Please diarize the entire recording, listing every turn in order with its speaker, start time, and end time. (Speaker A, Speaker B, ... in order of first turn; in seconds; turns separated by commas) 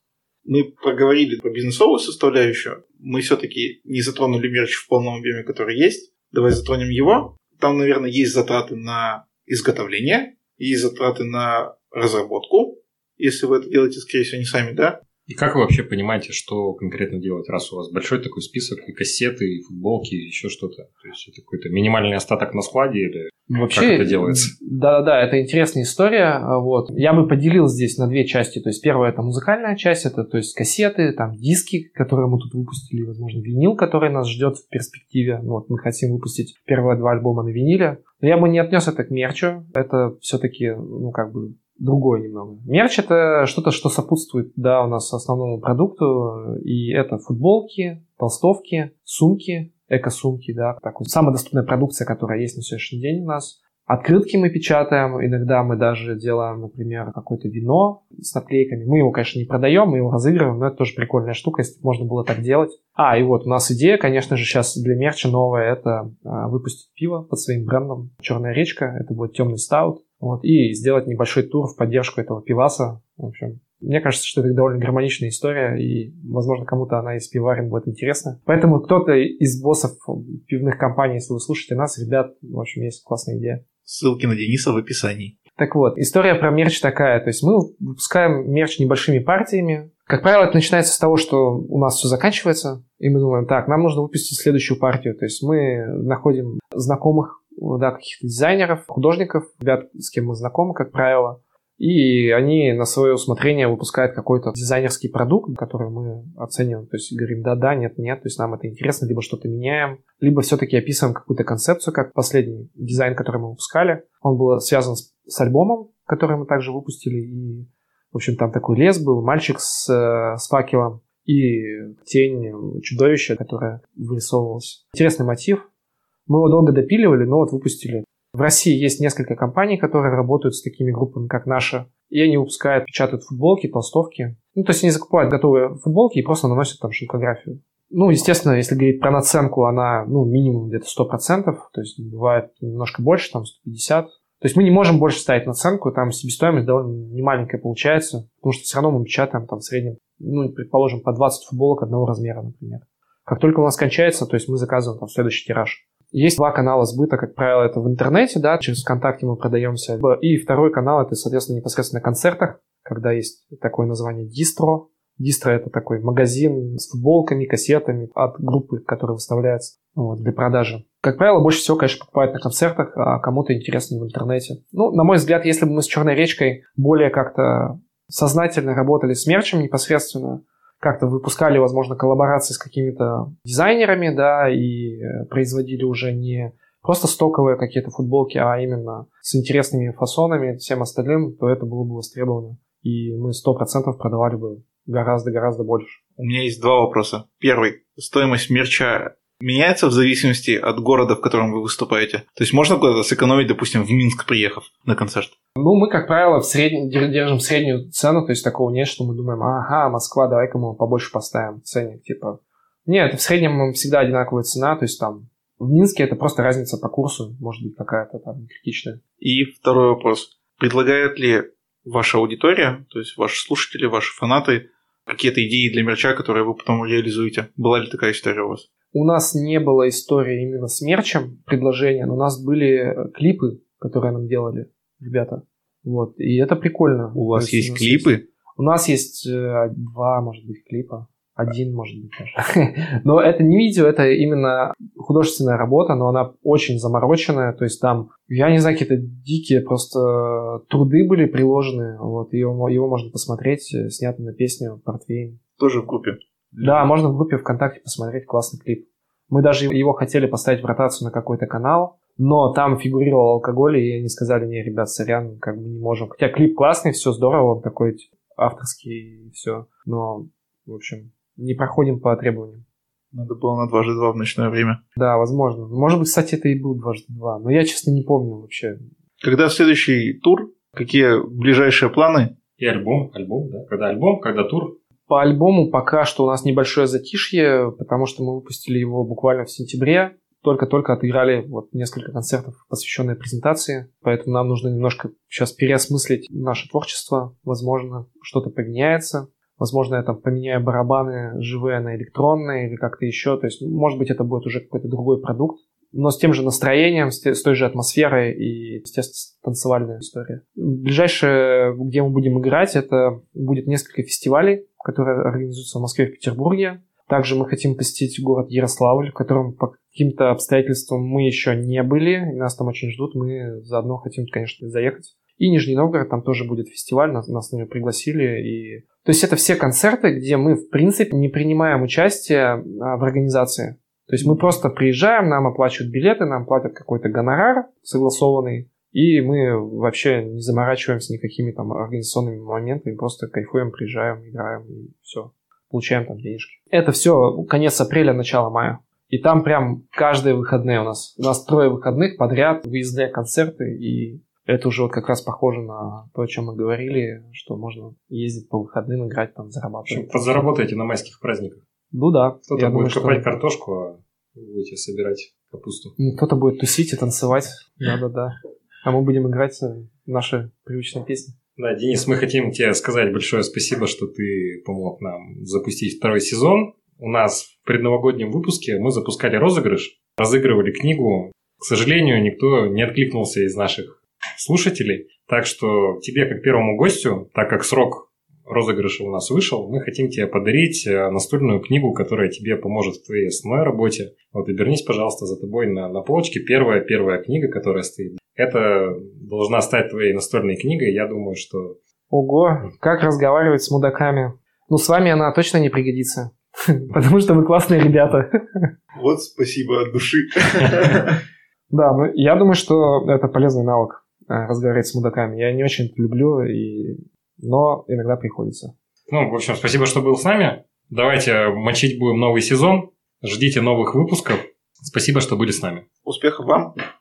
Speaker A: 0.5-15.0, Speaker B: 15.3-24.5, Speaker C: 23.5-83.6, Speaker A: 83.8-85.3, Speaker C: 85.6-125.7, Speaker C: 126.3-196.0, Speaker A: 196.2-205.3, Speaker C: 205.6-219.0, Speaker A: 219.2-228.7, Speaker C: 228.9-255.4, Speaker A: 237.2-238.2, Speaker A: 255.6-256.9, Speaker C: 256.6-272.6, Speaker A: 273.1-274.8, Speaker C: 275.0-278.8, Speaker A: 279.2-282.3, Speaker B: 282.6-284.8, Speaker C: 285.1-360.1, Speaker B: 359.9-361.6, Speaker C: 361.9-363.3, Speaker B: 362.5-366.0, Speaker C: 366.0-371.4, Speaker B: 371.6-401.8, Speaker C: 402.1-408.7, Speaker A: 408.9-411.2, Speaker C: 411.7-418.7, Speaker B: 419.1-425.9, Speaker A: 426.1-426.8